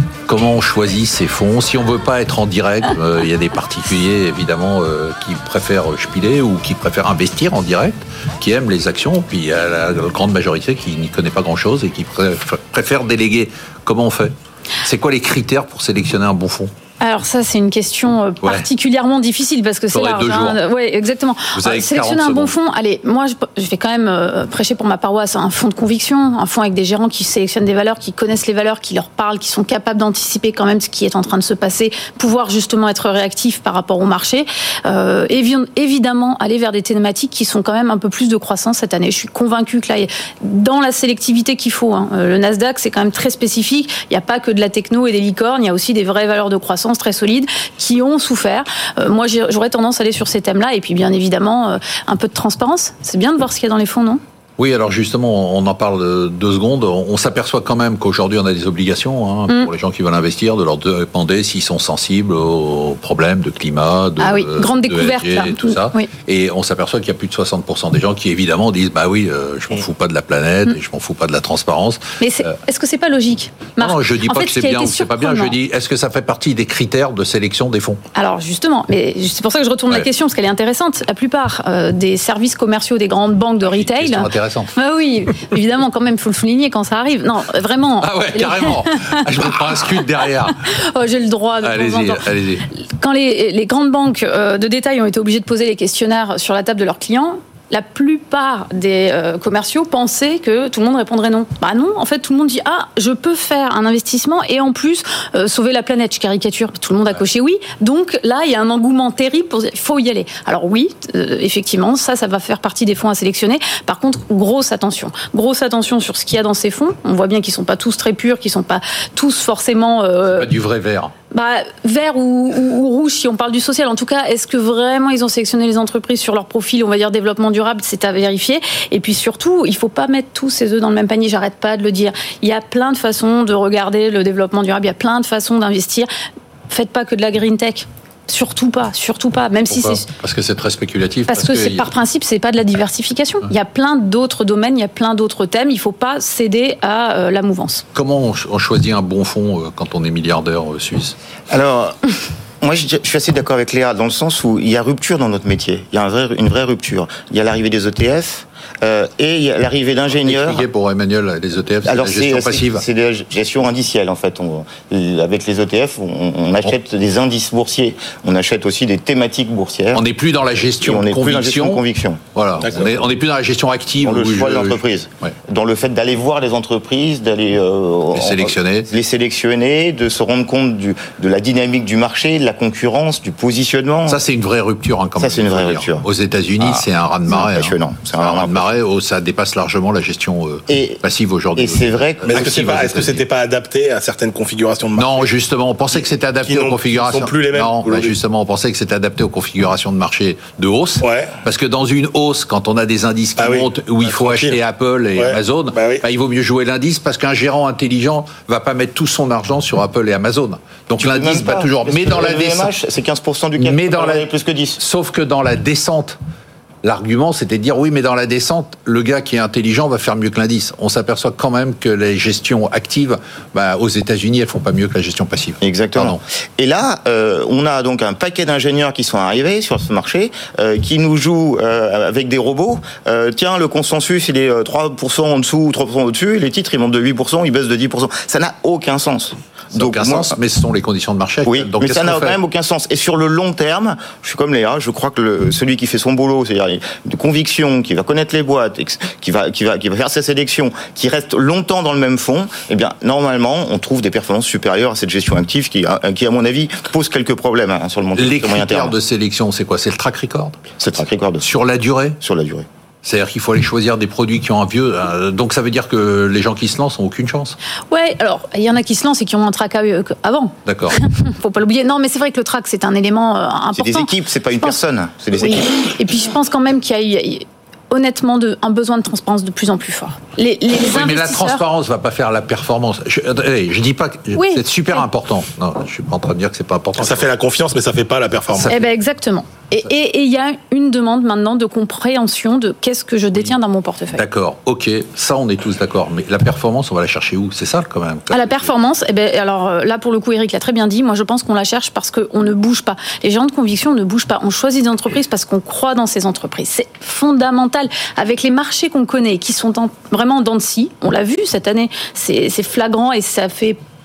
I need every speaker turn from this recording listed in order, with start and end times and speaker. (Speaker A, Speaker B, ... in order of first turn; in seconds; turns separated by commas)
Speaker A: 0.3-16.7, Speaker B: 17.0-54.2, Speaker A: 18.4-18.7, Speaker A: 19.9-20.6, Speaker A: 21.6-22.5, Speaker A: 54.6-72.5, Speaker B: 64.2-66.1, Speaker B: 72.2-75.5, Speaker A: 73.8-78.0, Speaker B: 78.2-90.0, Speaker A: 83.6-84.7, Speaker A: 88.0-90.8, Speaker B: 90.7-120.5, Speaker A: 91.6-92.7, Speaker A: 120.3-121.1, Speaker B: 121.3-136.1, Speaker B: 136.7-140.1, Speaker A: 139.7-141.9, Speaker B: 141.3-147.8, Speaker A: 147.9-151.2, Speaker C: 151.5-152.1, Speaker C: 152.6-160.7, Speaker A: 160.2-162.8, Speaker C: 161.8-170.0, Speaker A: 169.9-171.8, Speaker C: 170.8-172.2, Speaker A: 172.3-175.3, Speaker C: 174.0-184.2, Speaker A: 178.1-178.9, Speaker A: 184.1-193.2, Speaker C: 185.2-186.1, Speaker C: 186.6-188.7, Speaker C: 190.7-191.0, Speaker C: 191.6-192.5, Speaker D: 192.3-195.3, Speaker A: 195.0-212.7, Speaker D: 196.4-198.1, Speaker D: 201.0-201.3, Speaker D: 203.4-204.6, Speaker D: 205.2-206.0, Speaker C: 211.0-214.8, Speaker A: 213.6-214.3, Speaker A: 214.8-216.2, Speaker A: 216.8-226.2, Speaker C: 225.6-240.4, Speaker A: 239.7-242.4, Speaker C: 241.4-259.0, Speaker A: 258.2-260.6, Speaker C: 260.8-261.4, Speaker A: 261.4-262.2, Speaker C: 262.2-262.6, Speaker A: 263.0-267.6, Speaker B: 267.9-274.8, Speaker A: 270.6-271.0, Speaker C: 273.8-275.7, Speaker B: 275.4-281.6, Speaker A: 280.9-287.2, Speaker B: 284.4-285.0, Speaker D: 287.0-288.7, Speaker A: 288.5-288.9, Speaker B: 288.7-294.2, Speaker A: 294.1-298.7, Speaker B: 298.3-313.8